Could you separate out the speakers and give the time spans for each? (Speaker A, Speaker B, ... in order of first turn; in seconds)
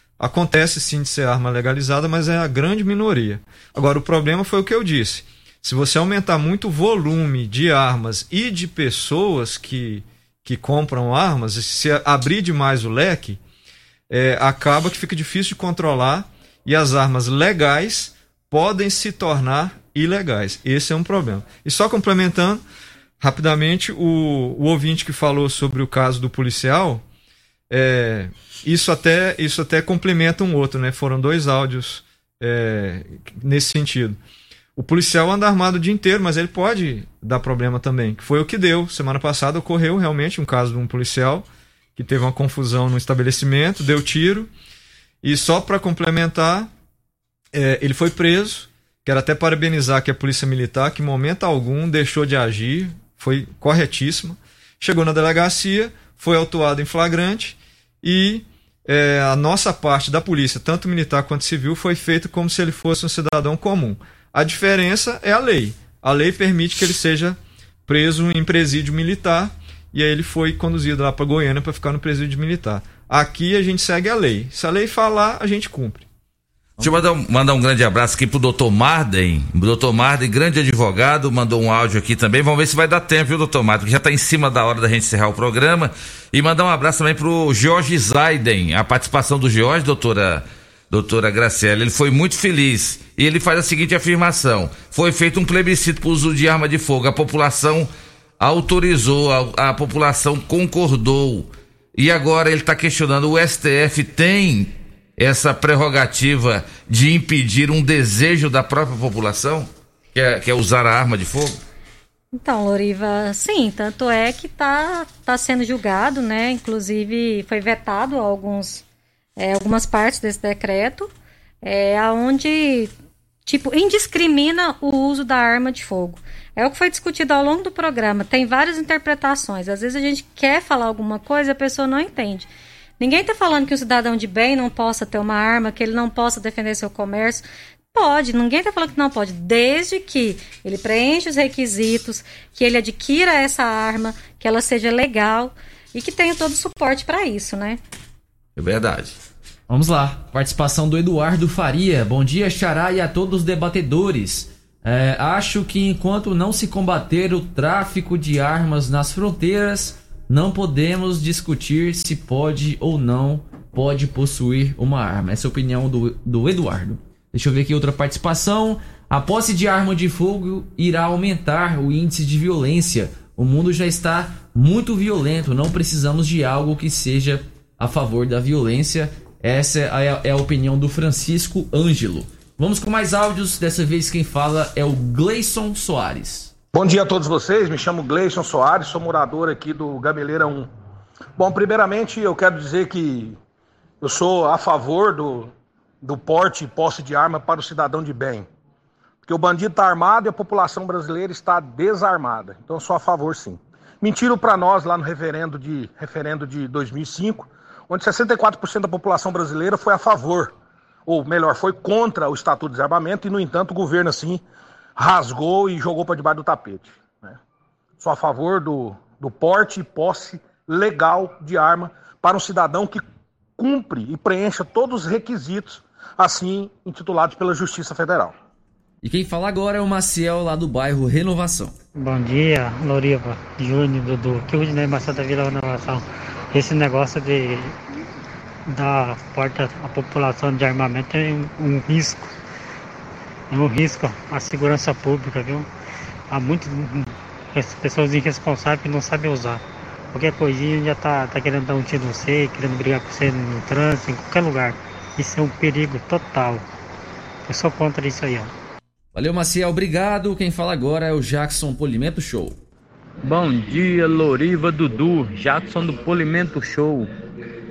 Speaker A: 0.2-13.4, 14.1-22.6, 23.2-27.0, 27.7-34.2, 34.8-44.5, 45.2-46.7, 47.5-76.0
Speaker B: 76.8-111.5, 148.6-149.2
Speaker C: 112.4-118.8, 119.4-121.1, 121.6-122.9, 123.4-132.5, 133.0-147.8
Speaker D: 149.7-186.5, 229.0-231.7, 259.1-262.6
Speaker E: 186.7-190.7, 191.4-193.4, 194.0-198.5, 199.2-210.5, 211.1-214.4, 214.9-217.4, 218.0-223.0, 223.6-228.3
Speaker F: 232.0-237.8, 238.7-242.3, 243.5-245.7, 246.3-249.6, 250.1-256.6, 257.4-258.5
Speaker G: 263.2-267.1